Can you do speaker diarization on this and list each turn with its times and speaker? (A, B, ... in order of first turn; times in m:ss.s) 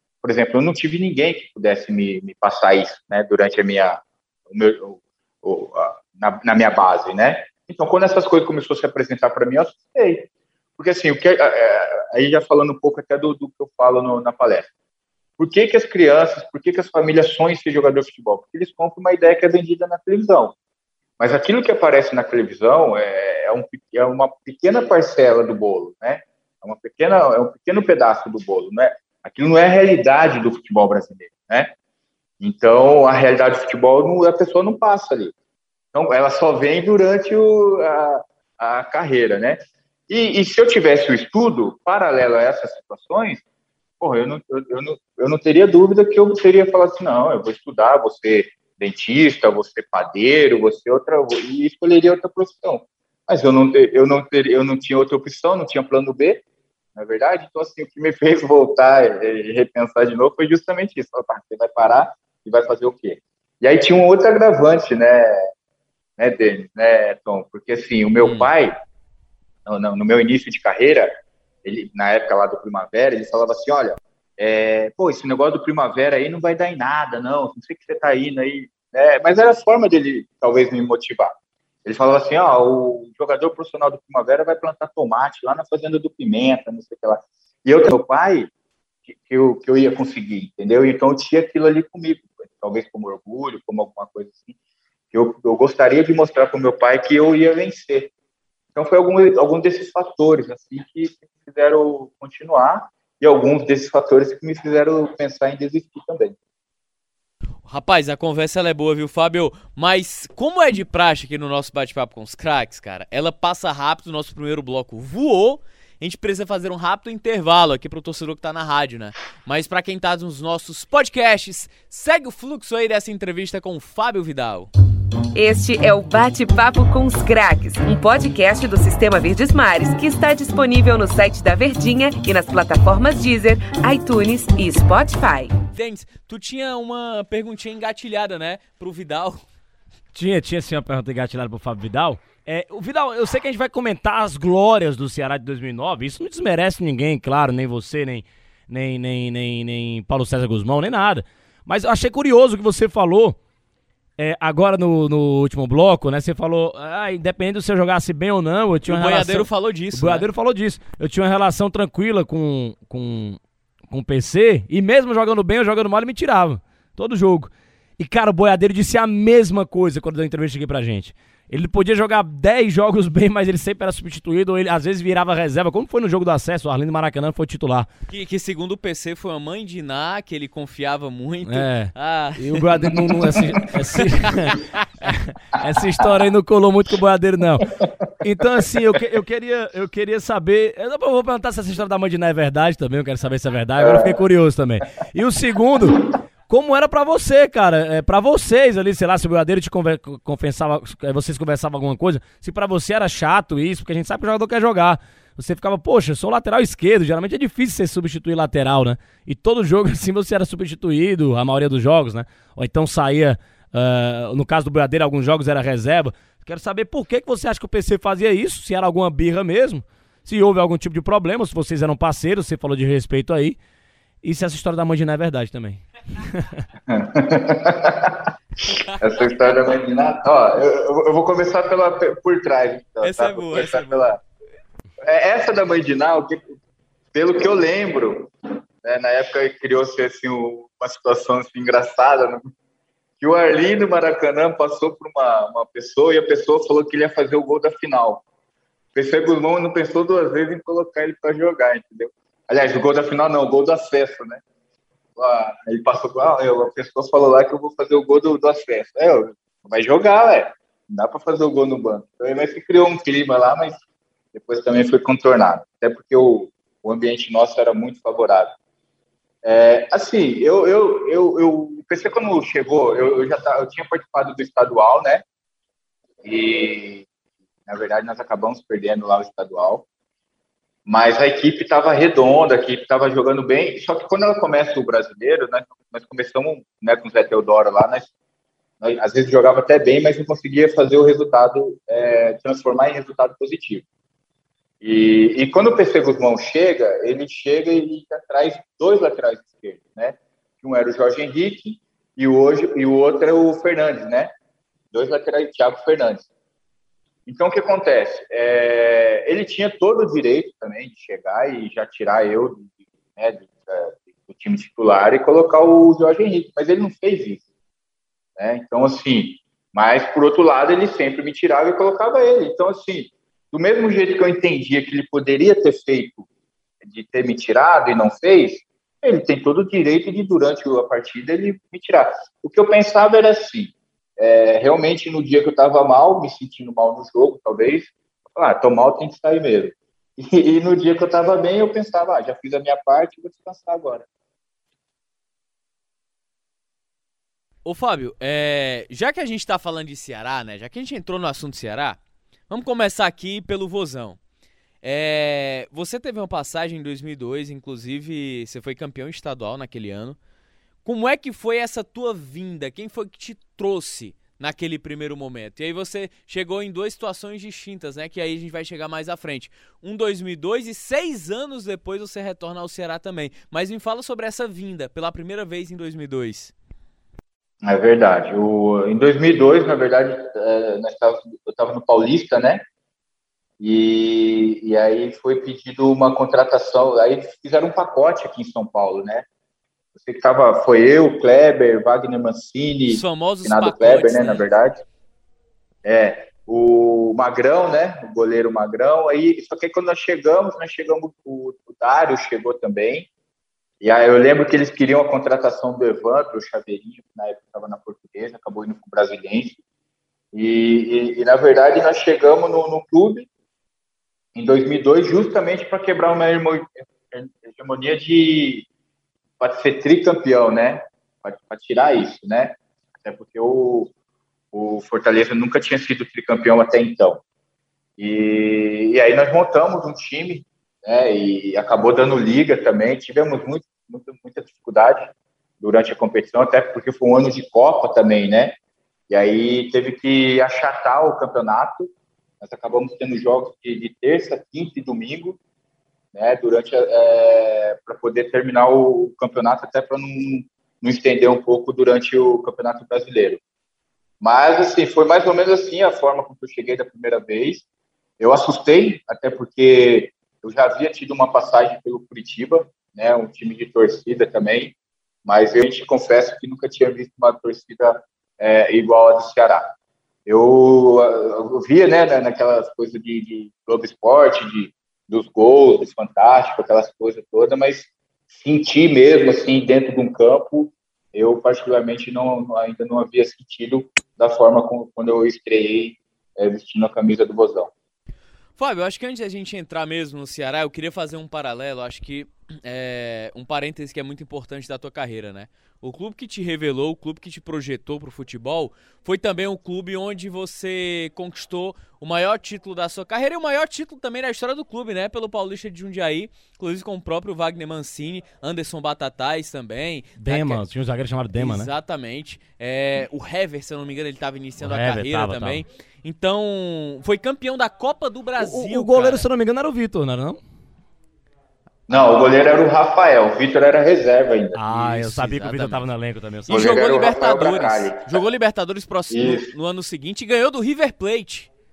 0:00.2-0:14.7 A
0:15.4-0:20.6 A
0:21.2-0:31.7 A
0:32.4-0:35.3 A
0:35.9-0:43.4 A
0:44.0-0:56.4 A
0:56.9-1:05.5 A
1:06.2-1:08.7 A
1:08.2-1:08.5 B
1:09.6-1:11.1 A
1:11.6-1:21.3 A
1:21.8-1:28.5 A
1:29.0-1:34.5 A
1:35.1-1:38.1 A
1:38.7-1:46.4 A
1:47.7-2:04.7 B
2:05.3-2:15.5 C
2:15.7-2:19.4 B
2:20.1-2:33.4 D
2:34.2-2:43.4 D
2:38.8-2:40.3 B
2:43.9-2:57.9 D
2:58.1-3:03.3 B
3:01.5-3:43.6 D
3:03.1-3:03.5 A
3:04.0-3:05.1 B
3:13.8-3:14.2 A
3:44.2-3:46.6 D
3:46.9-3:48.3 A
3:49.0-3:54.2 A
3:53.0-3:54.1 B
3:55.0-3:56.5 A
3:57.1-3:58.3 A
3:58.8-4:02.4 A
4:03.2-4:08.2 A
4:08.9-4:14.4 A
4:15.2-4:23.8 A
4:24.3-4:28.5 A
4:29.4-4:35.2 A
4:36.2-4:37.1 A
4:37.7-4:39.8 A
4:40.8-4:48.1 A
4:48.8-4:53.8 A
4:54.8-5:04.3 A
5:04.9-5:06.3 A
5:07.2-5:17.4 A
5:18.4-5:26.3 A
5:26.8-5:44.0 A
5:47.6-5:52.0 B
5:52.5-5:54.2 B
5:54.8-6:00.2 B
6:00.8-6:16.5 B
6:17.6-6:22.6 A
6:23.6-6:29.2 A
6:30.0-6:34.8 A
6:32.9-6:34.4 B
6:35.8-6:43.1 A
6:43.8-6:49.6 A
6:50.3-6:53.3 A
6:54.3-6:58.7 A
6:59.4-7:03.9 A
7:04.5-7:07.2 A
7:08.0-7:18.6 A
7:19.1-7:25.4 A
7:26.1-7:33.4 A
7:34.2-7:37.6 A
7:38.2-7:49.6 A
7:50.2-8:07.7 A
8:08.6-8:30.6 B
8:30.2-8:31.7 D
8:31.3-8:39.2 B
8:34.6-8:35.6 D
8:38.4-8:40.4 D
8:41.9-8:44.6 A
8:44.5-8:46.7 D
8:44.7-8:45.9 B
8:46.4-8:51.5 B
8:46.5-8:48.2 A
8:49.1-8:49.5 A